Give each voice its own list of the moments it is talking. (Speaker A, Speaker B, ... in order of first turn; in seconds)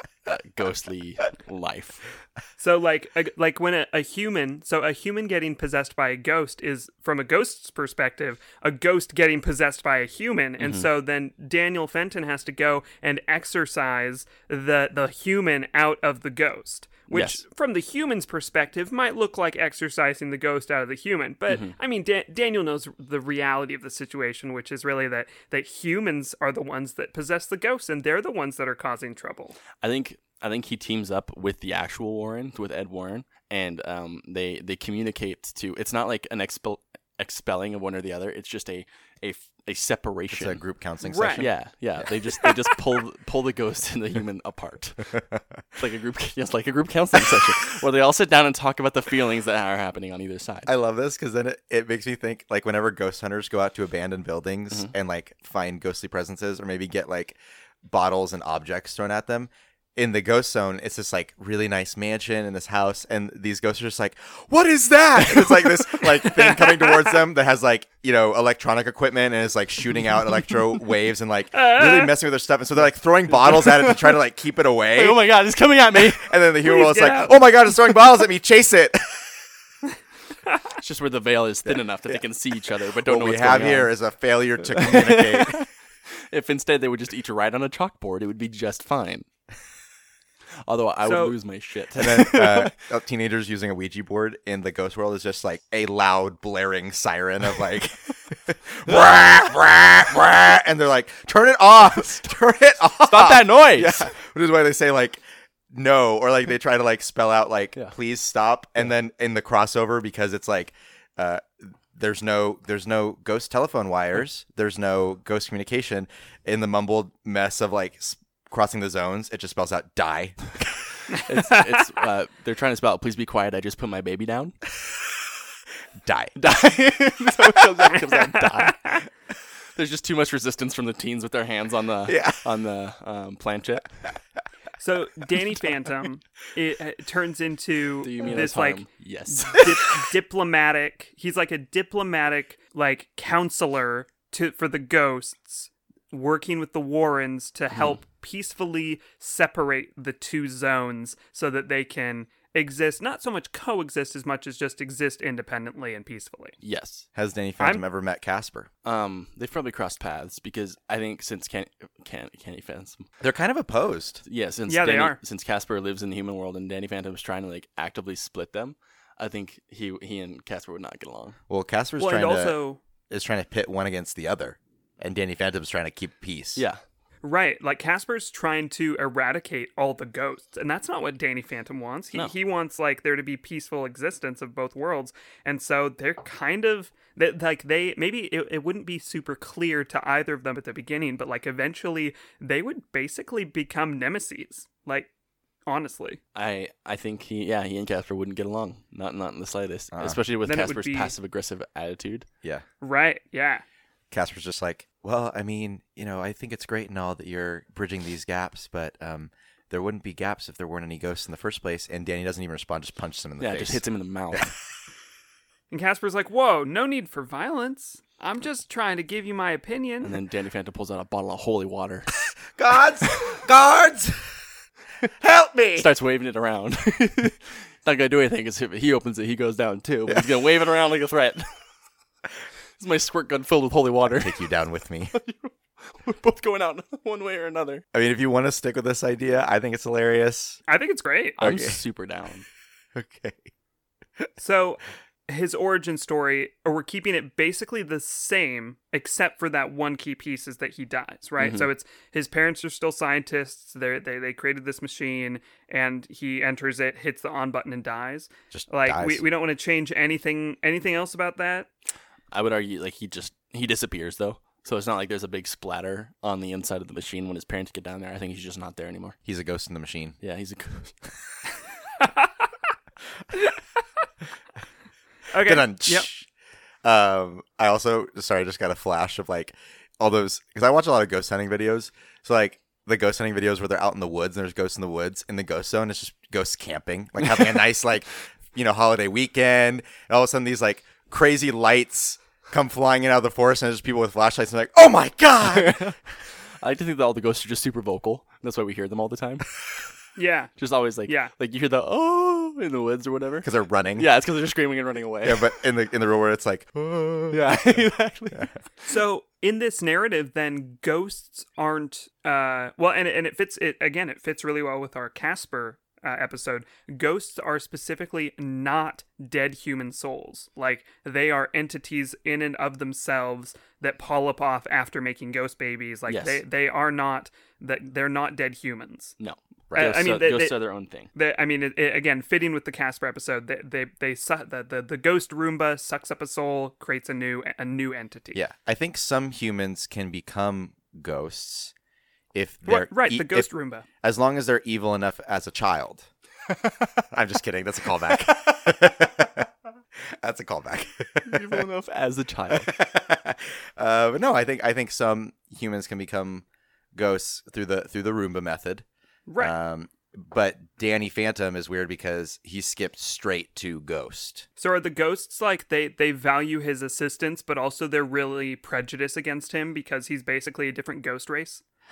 Speaker A: 0.3-2.1, 10.6-10.9, 17.1-17.4, 21.5-21.8, 29.8-40.6, 41.4-45.2, 45.8-50.7, 73.5-74.2, 75.0-76.3, 80.8-83.9, 84.7-85.7, 86.3-89.3, 90.7-92.7, 103.0-104.1, 121.2-124.6, 126.4-129.0, 129.8-134.0, 138.0-139.8, 156.6-157.1, 158.8-163.1, 164.2-171.4, 196.3-202.3, 213.4-214.5, 220.0-222.1, 225.8-231.5, 232.8-234.5, 235.1-237.8, 241.4-242.5, 251.4-251.7, 262.3-269.2, 270.2-271.0, 295.4-296.0, 296.6-299.5, 300.6-305.6, 307.3-308.5, 326.1-326.4, 329.2-331.1, 351.3-352.7
Speaker B: 2.6-29.6, 41.0-41.5, 42.4-42.7, 66.2-67.2, 71.5-72.1, 76.6-77.4, 91.0-91.3, 121.1-121.6, 128.3-129.0, 134.8-156.6, 164.7-165.2, 172.0-172.8, 177.2-195.1, 195.7-196.2, 200.4-201.1, 202.8-203.6, 215.7-220.2, 240.7-241.4, 244.4-261.7, 272.0-272.3, 275.3-276.1, 300.2-300.5, 301.1-301.3, 308.9-329.2, 329.7-330.6, 331.1-338.4, 342.7-343.9, 359.3-359.6, 364.6-371.6
Speaker C: 40.3-42.1, 50.7-75.2, 76.0-79.5, 81.7-82.2, 83.0-85.6, 92.0-120.5, 126.0-126.4, 132.1-132.4, 157.2-158.7, 163.2-164.2, 171.5-172.6, 173.1-176.6, 199.9-200.2, 204.1-214.5, 222.5-224.4, 225.2-225.9, 234.1-235.1, 237.9-240.6, 241.4-241.8, 242.9-243.5, 258.5-259.2, 269.3-270.2, 275.4-276.3, 276.8-295.9, 303.4-304.1, 305.2-308.5, 329.7-330.0, 338.3-341.7, 342.3-343.5, 344.0-346.1, 347.1-349.5, 350.2-351.7, 352.5-358.9, 359.4-364.5